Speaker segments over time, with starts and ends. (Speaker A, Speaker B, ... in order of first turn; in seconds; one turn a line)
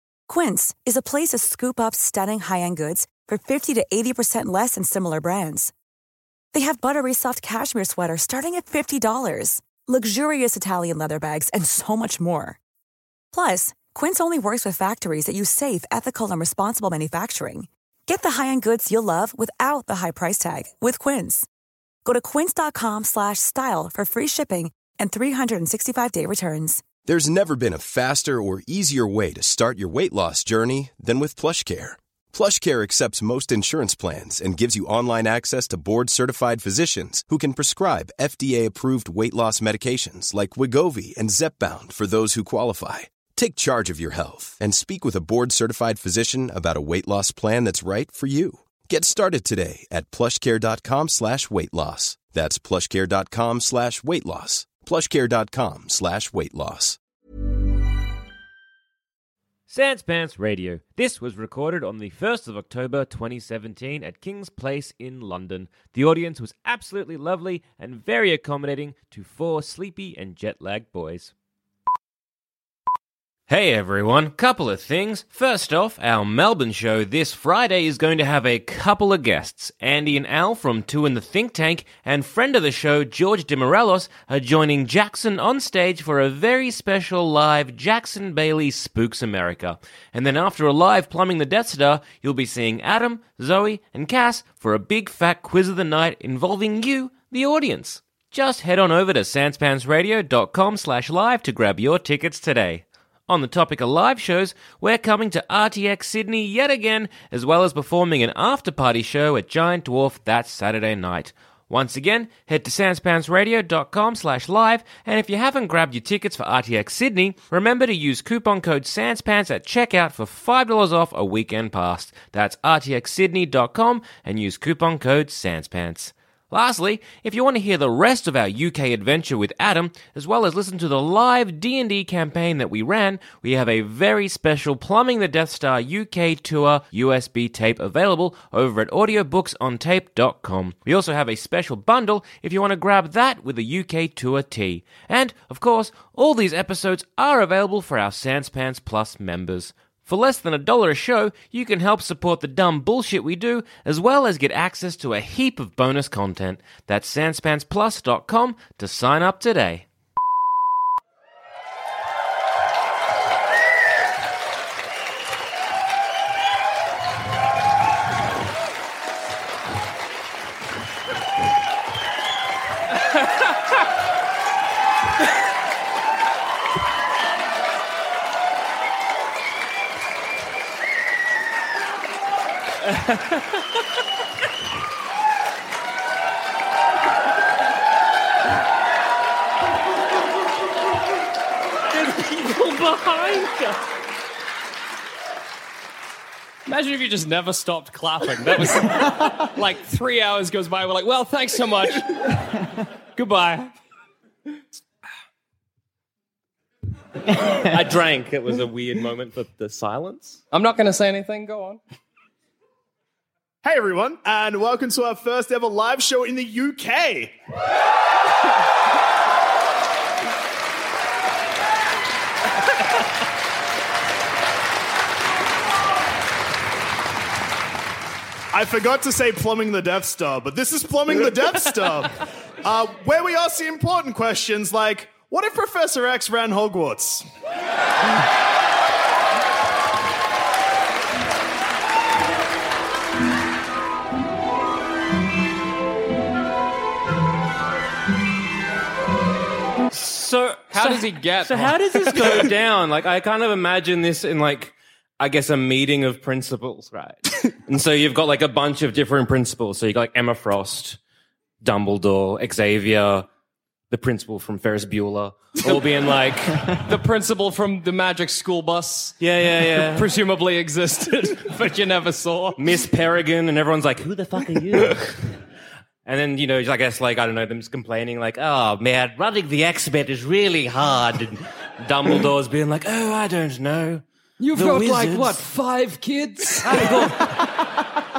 Speaker A: 0.3-5.7
Speaker A: 6.5-12.6
Speaker A: 13.3-21.5
Speaker A: 22.1-26.9
Speaker B: 27.1-57.0
Speaker C: 59.7-71.3
Speaker C: 73.5-159.9
Speaker C: 182.9-183.4
Speaker C: 191.9-193.8
Speaker D: 196.7-203.7
Speaker C: 207.3-210.4
Speaker D: 210.5-211.8
Speaker E: 213.6-217.3
Speaker E: 228.5-237.3
Speaker C: 249.9-261.0
Speaker D: 250.7-252.4
Speaker C: 261.6-263.3
Speaker C: 263.9-266.8
Speaker D: 266.7-269.2
Speaker C: 269.2-270.1
Speaker D: 269.8-272.6
Speaker C: 272.6-275.4
Speaker C: 276.1-284.0
Speaker D: 284.4-287.4
Speaker C: 284.6-285.4
Speaker C: 286.6-287.6